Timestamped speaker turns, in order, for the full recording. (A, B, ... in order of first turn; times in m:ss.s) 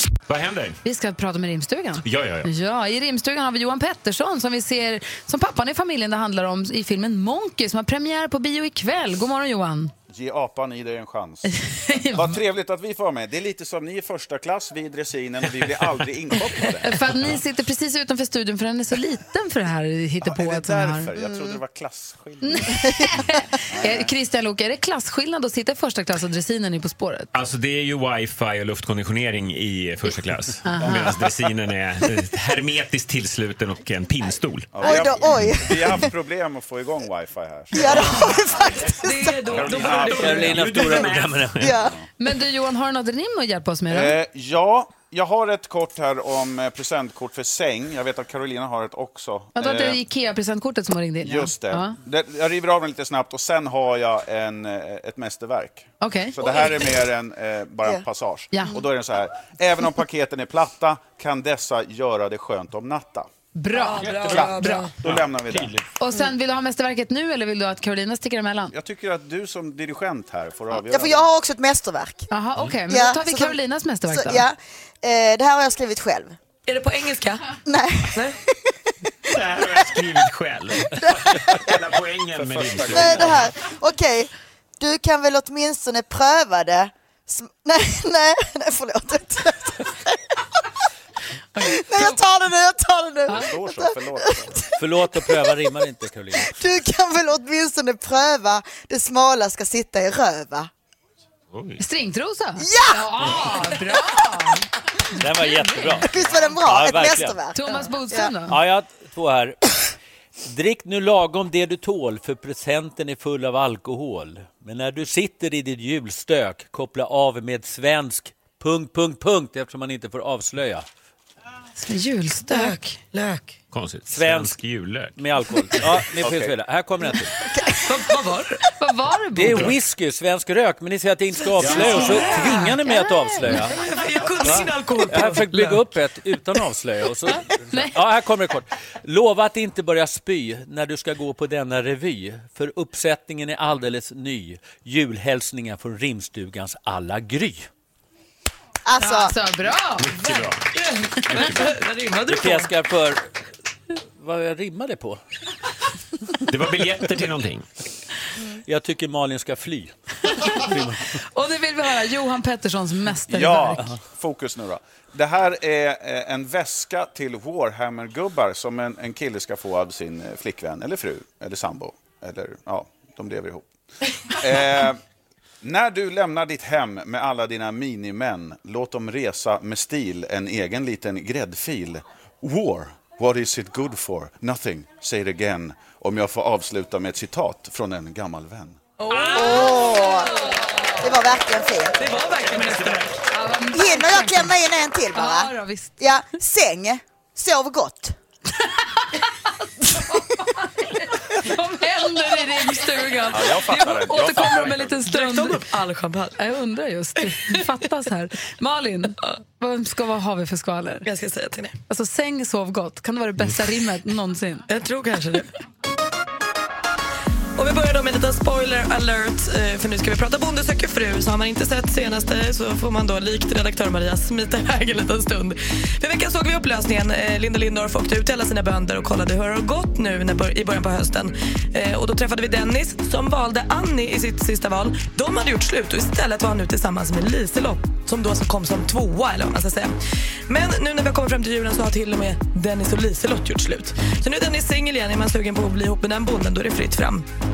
0:00.3-0:00.8 A
0:00.8-0:09.9 B
0:02.0-0:02.5 A
0:10.1-0:11.6 C
0:11.5-0:12.4 B
0:12.1-0:17.1 C
0:16.8-0:21.1 B
0:20.2-0:22.8 C
0:22.4-0:27.3 B
0:23.7-0:24.1 C
0:27.3-0:35.0 A
0:30.6-0:31.1 B
0:34.7-0:38.7 C
0:34.8-0:36.1 D
0:37.7-0:39.4 D
0:39.0-0:40.5 E
0:39.5-0:41.7 A
0:39.5-0:41.1 C
0:40.1-0:41.7 F
0:41.6-0:42.0 D
0:41.8-0:42.0 C
0:42.2-0:44.2 B
0:43.9-0:50.0 C
0:49.6-0:52.0 B
0:51.2-1:03.3 C
0:56.0-0:56.4 B
1:03.6-1:04.9 B
1:03.7-1:05.0 E
1:04.2-1:05.8 C
1:06.0-1:08.7 B
1:08.7-1:11.3 C
1:10.7-1:12.3 D
1:12.3-1:14.5 B
1:12.9-1:13.6 D
1:14.1-1:16.4 D
1:16.7-1:17.6 E
1:17.6-1:18.5 D
1:19.3-1:23.4 A
1:22.4-1:23.5 C
1:22.9-1:30.2 D
1:31.6-1:32.2 B
1:31.6-1:35.2 D
1:33.3-1:34.6 C
1:34.8-1:36.5 F
1:36.4-1:40.7 D
1:41.5-1:41.8 A
1:41.8-1:44.7 B
1:42.6-1:43.5 D
1:45.1-1:47.4 F
1:45.5-1:46.0 B
1:46.0-1:48.3 D
1:47.5-1:48.6 B
1:48.5-1:49.6 F
1:50.4-2:00.9 F
2:01.8-2:02.9 B
2:02.5-2:03.6 E
2:03.7-2:05.2 A
2:04.1-2:04.6 F
2:05.2-2:07.3 F
2:06.1-2:06.6 C
2:07.5-2:08.0 D
2:07.8-2:08.6 E
2:08.8-2:09.7 B
2:09.3-2:13.8 F
2:11.6-2:12.8 E
2:11.6-2:12.2 A
2:12.6-2:13.6 B
2:13.5-2:15.9 E
2:14.4-2:27.7 F
2:28.9-2:29.3 D
2:29.0-2:30.4 B
2:30.0-2:30.7 A
2:30.7-2:32.7 E
2:31.3-2:31.7 A
2:32.2-2:33.2 F
2:34.2-2:35.2 F
2:36.5-2:37.6 A
2:38.6-2:39.9 F
2:40.5-2:41.1 F
2:41.3-2:43.9 B
2:43.3-2:53.7 C
2:54.3-2:55.0 C
2:55.6-3:08.8 C
3:09.0-3:10.6 E
3:09.3-3:10.4 D
3:11.0-3:12.0 D
3:12.0-3:13.1 E
3:12.4-3:13.1 A
3:13.3-3:14.5 B
3:13.7-3:18.2 D
3:15.1-3:16.0 B
3:20.0-3:25.6 B
3:23.3-3:25.0 C
3:25.0-3:26.4 E
3:26.4-3:31.1 B
3:31.0-3:31.8 E
3:31.9-3:34.6 B
3:34.7-3:35.5 E
3:37.6-4:00.0 E
4:00.5-4:07.3 E